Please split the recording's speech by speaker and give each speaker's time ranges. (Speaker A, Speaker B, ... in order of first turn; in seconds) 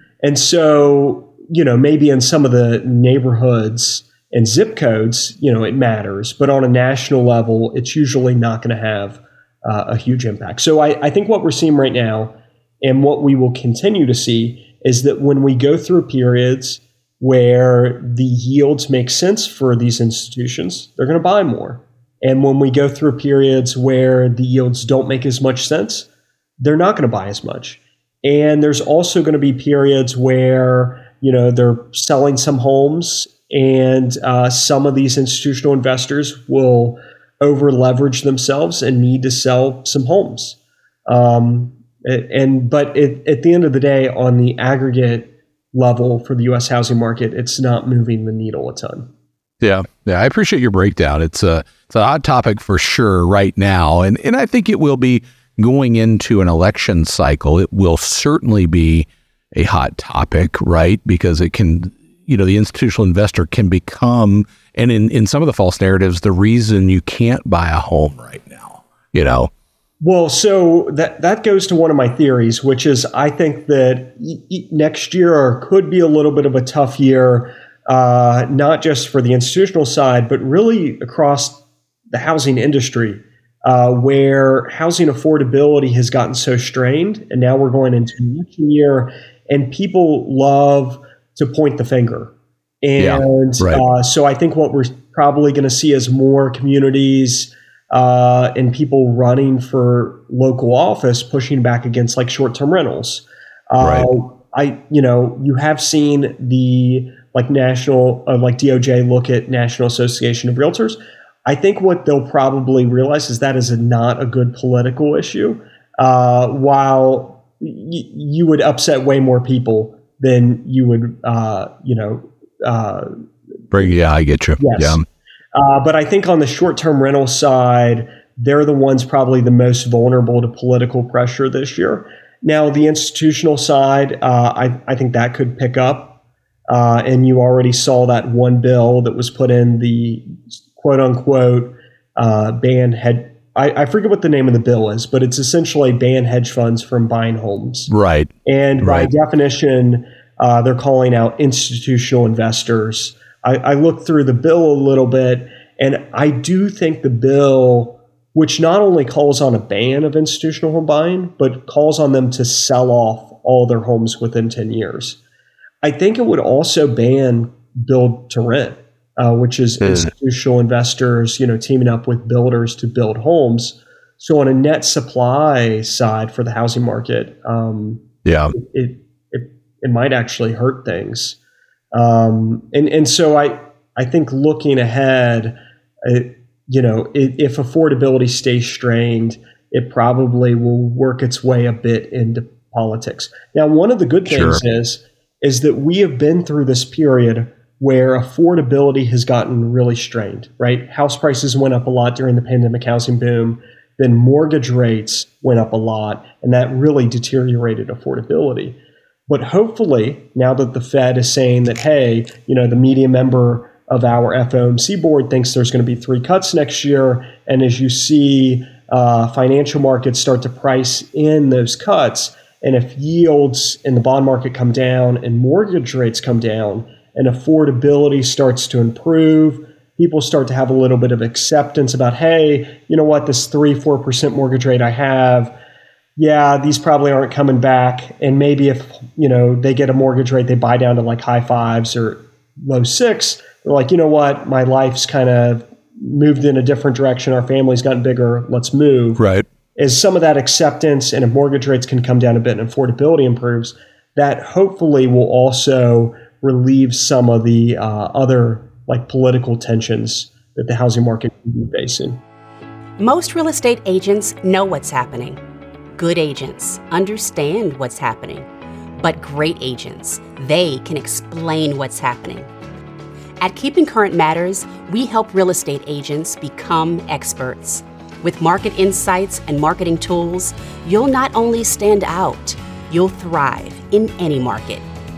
Speaker A: 0.2-26.1, 26.6-49.1, 70.0-123.1, 124.6-125.0, 125.5-136.2, 136.7-147.9, 148.4-165.2, 165.8-181.4, 181.9-235.5, 236.2-249.2, 249.8-262.2
Speaker B: 49.6-69.5, 93.0-93.8, 103.8-104.1, 123.7-125.0, 147.9-149.1, 169.8-170.1, 178.2-178.5, 194.3-194.6, 249.2-249.4
Speaker C: 263.0-265.4, 265.9-272.5, 273.4-284.8